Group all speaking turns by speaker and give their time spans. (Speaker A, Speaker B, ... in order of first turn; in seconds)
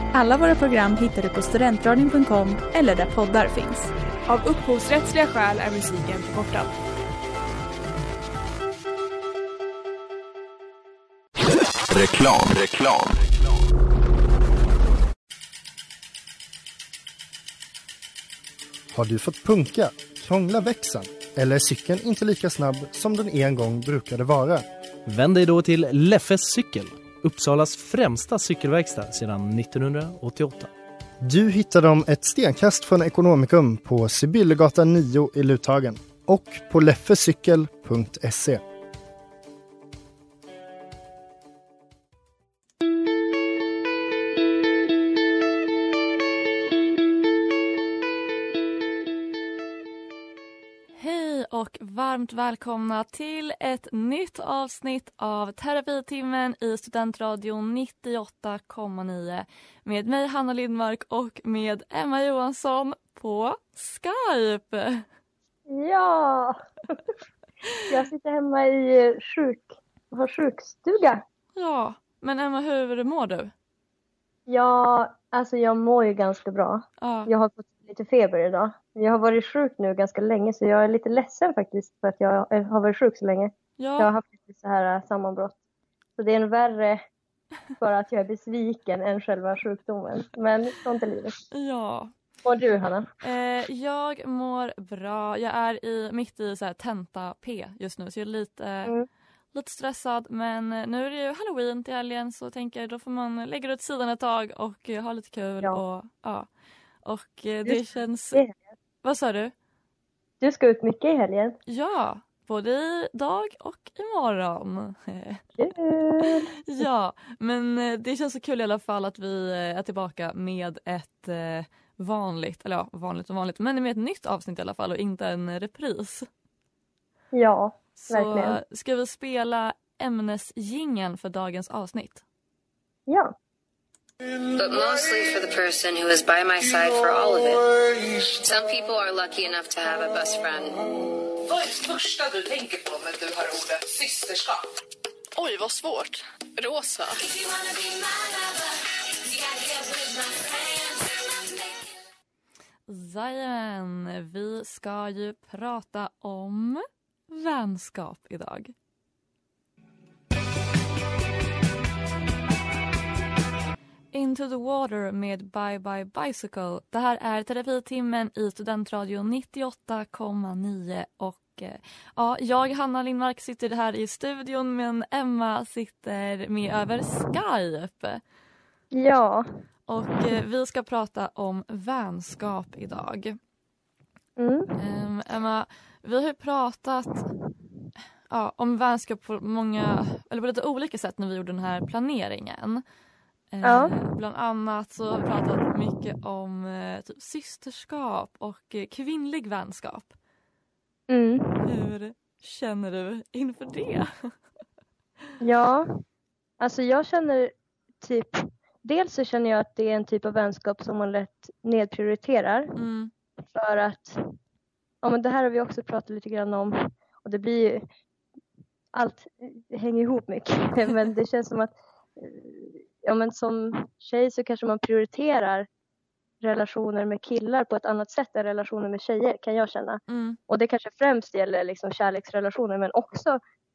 Speaker A: 0.1-3.9
Speaker B: 4.2-6.7
Speaker C: 11.9-12.9, 25.1-30.7
Speaker D: 18.9-24.6, 31.2-38.6
Speaker E: 50.9-65.0, 71.5-73.5, 77.0-77.3, 83.8-84.1, 91.5-92.1, 93.2-98.9, 99.5-106.5, 107.0-108.4, 109.0-109.5, 111.7-115.4, 116.2-126.3, 128.0-132.2, 145.4-147.1, 152.9-158.7, 164.1-178.2, 179.9-183.4, 184.8-187.3, 188.3-192.8, 193.5-200.1, 201.6-204.3, 212.8-213.1, 230.1-230.4
Speaker F: 65.7-67.0, 67.9-71.2, 74.5-85.5, 86.2-87.0, 87.8-91.4, 92.4-93.1, 110.4-111.5, 115.6-116.8, 127.3-128.6, 133.1-133.3, 178.9-179.5, 184.4-184.7, 193.6-193.9, 201.1-201.7, 205.4-206.0, 206.6-212.7, 213.5-214.2, 215.0-217.8, 218.9-225.7, 226.4-233.4
Speaker G: 134.5-137.7, 138.4-140.8, 147.1-152.0
Speaker H: 141.4-144.7